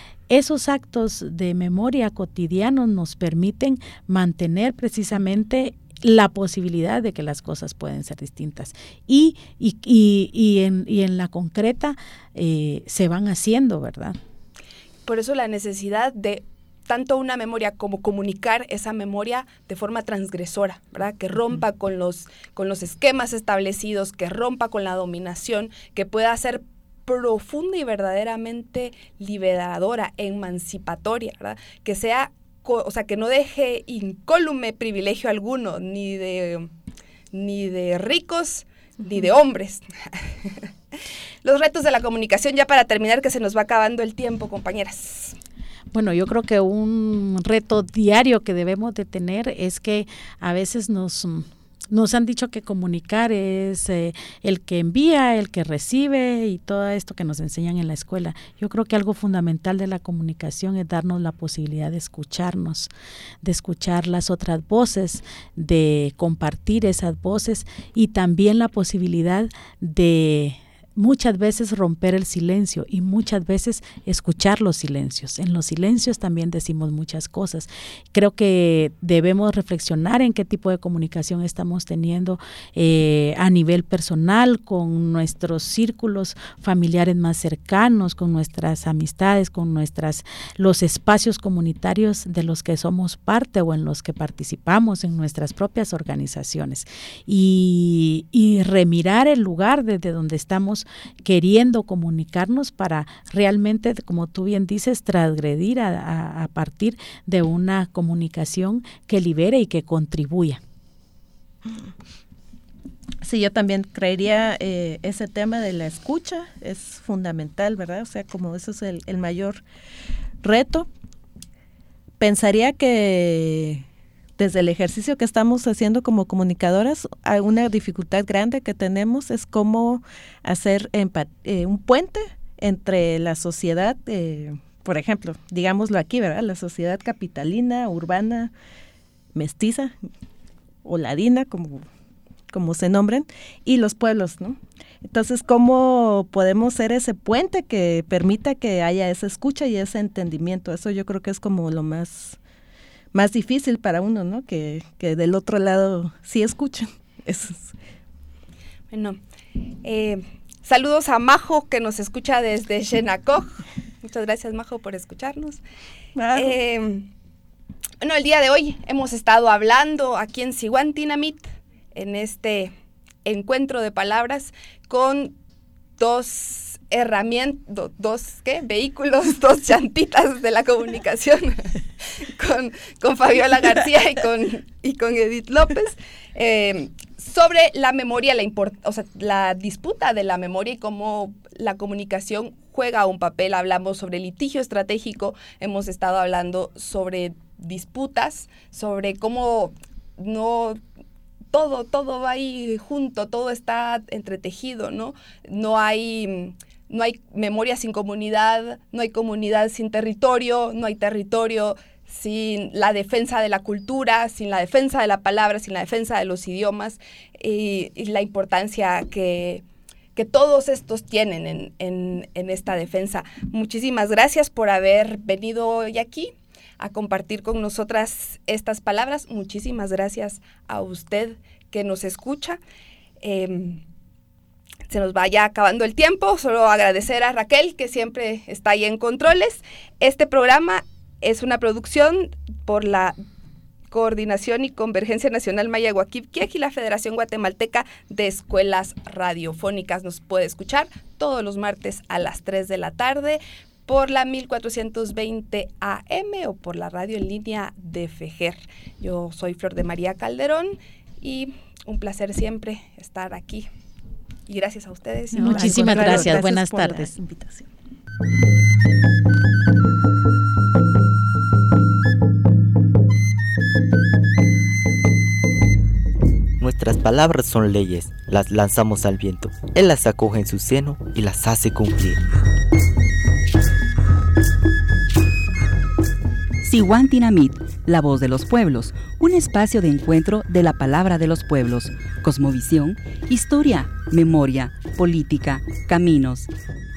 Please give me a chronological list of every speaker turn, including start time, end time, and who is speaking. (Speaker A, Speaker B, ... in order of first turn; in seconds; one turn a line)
Speaker A: 0.3-14.2
Speaker B: 15.1-36.7
Speaker B: 37.3-40.6
Speaker B: 41.4-45.4
Speaker A: 45.9-62.9
Speaker A: 63.4-110.6
Speaker C: 113.2-119.6
Speaker C: 120.4-120.9
Speaker C: 122.2-123.8
Speaker C: 124.4-138.5
Speaker C: 139.3-139.9
Speaker C: 140.8-141.8
Speaker C: 142.5-152.4
Speaker C: 153.1-157.7
Speaker B: 158.9-159.2
Speaker B: 159.8-165.6
Speaker C: 166.2-166.5
Speaker B: 166.3-167.1
Speaker B: 168.0-172.7
Speaker B: 173.2-175.3
Speaker B: 176.0-200.8
Speaker B: 201.5-219.6
Speaker B: 220.1-232.6
Speaker B: 233.2-233.8
Speaker B: 234.9-243.2
Speaker B: 243.9-263.7
Speaker B: 264.5-266.3
Speaker A: 265.3-267.1
Speaker C: 265.3-267.7
Speaker D: 276.6-282.2
Speaker E: 286.6-296.5